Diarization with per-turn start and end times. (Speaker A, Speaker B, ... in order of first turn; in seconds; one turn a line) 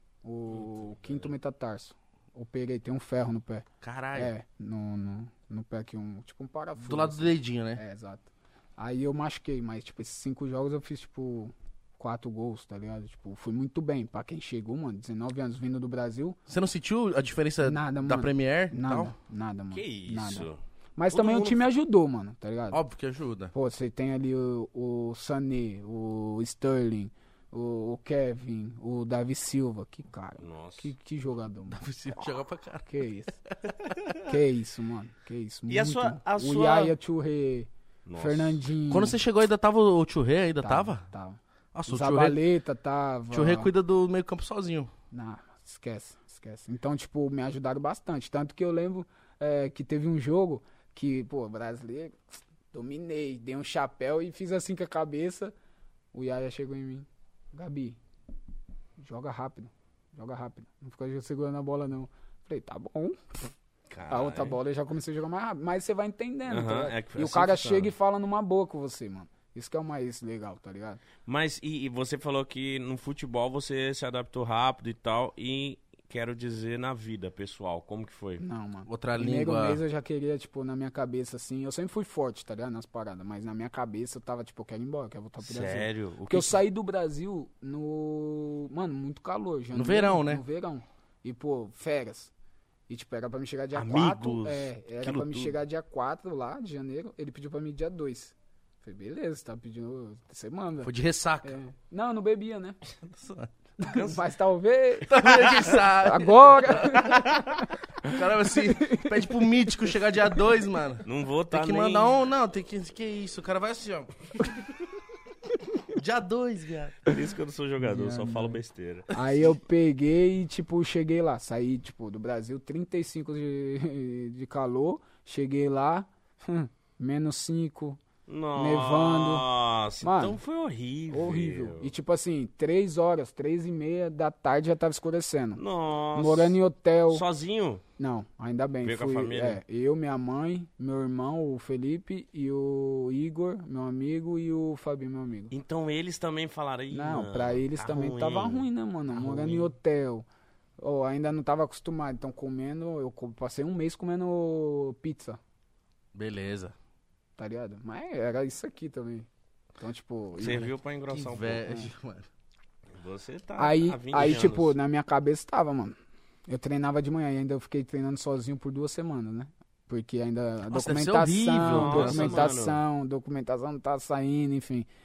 Speaker A: 0.2-16.4
Speaker B: 3.8-4.3
Speaker B: 6.8-7.8
Speaker B: 16.5-19.1
Speaker A: 17.6-22.8
Speaker C: 19.7-20.6
Speaker C: 21.1-21.7
Speaker B: 22.7-23.5
Speaker A: 23.5-32.3
Speaker C: 30.4-30.9
Speaker B: 31.7-32.9
Speaker A: 32.8-33.4
Speaker B: 33.5-33.9
Speaker A: 34.2-39.2
Speaker C: 35.7-36.9
Speaker C: 38.0-38.7
Speaker B: 38.9-41.0
Speaker A: 40.6-43.7
Speaker B: 41.7-42.4
Speaker B: 43.3-44.9
Speaker A: 45.1-55.5
Speaker A: 56.1-58.0
Speaker A: 59.0-63.5
Speaker C: 63.9-64.6
Speaker A: 64.1-71.0
Speaker C: 66.5-67.9
Speaker C: 71.3-78.4
Speaker A: 78.4-92.3
Speaker B: 78.9-79.8
Speaker C: 85.4-86.6
Speaker B: 89.7-90.4
Speaker A: 92.9-100.9
Speaker C: 93.7-95.6
Speaker B: 100.8-101.5
Speaker A: 101.4-102.8
Speaker B: 103.1-103.5
Speaker A: 103.8-109.5
Speaker C: 103.9-104.2
Speaker B: 105.0-107.2
Speaker C: 105.3-105.8
Speaker C: 107.0-107.6
Speaker B: 108.0-114.5
Speaker C: 111.0-112.2
Speaker B: 115.9-117.1
Speaker C: 117.1-119.2
Speaker A: 117.8-118.6
Speaker A: 119.1-128.0
Speaker C: 128.3-131.9
Speaker A: 128.6-129.4
Speaker A: 130.0-130.4
Speaker A: 131.1-135.6
Speaker C: 135.6-137.8
Speaker A: 136.1-137.2
Speaker A: 138.0-145.5
Speaker C: 138.8-139.6
Speaker C: 145.5-149.7
Speaker A: 146.9-150.3
Speaker A: 150.8-155.4
Speaker B: 156.1-156.7
Speaker A: 157.4-159.3
Speaker A: 159.8-160.7
Speaker C: 160.4-161.7
Speaker B: 161.1-162.3
Speaker C: 162.9-164.8
Speaker A: 163.6-165.9
Speaker A: 166.5-174.9
Speaker B: 170.7-172.6
Speaker C: 171.7-172.8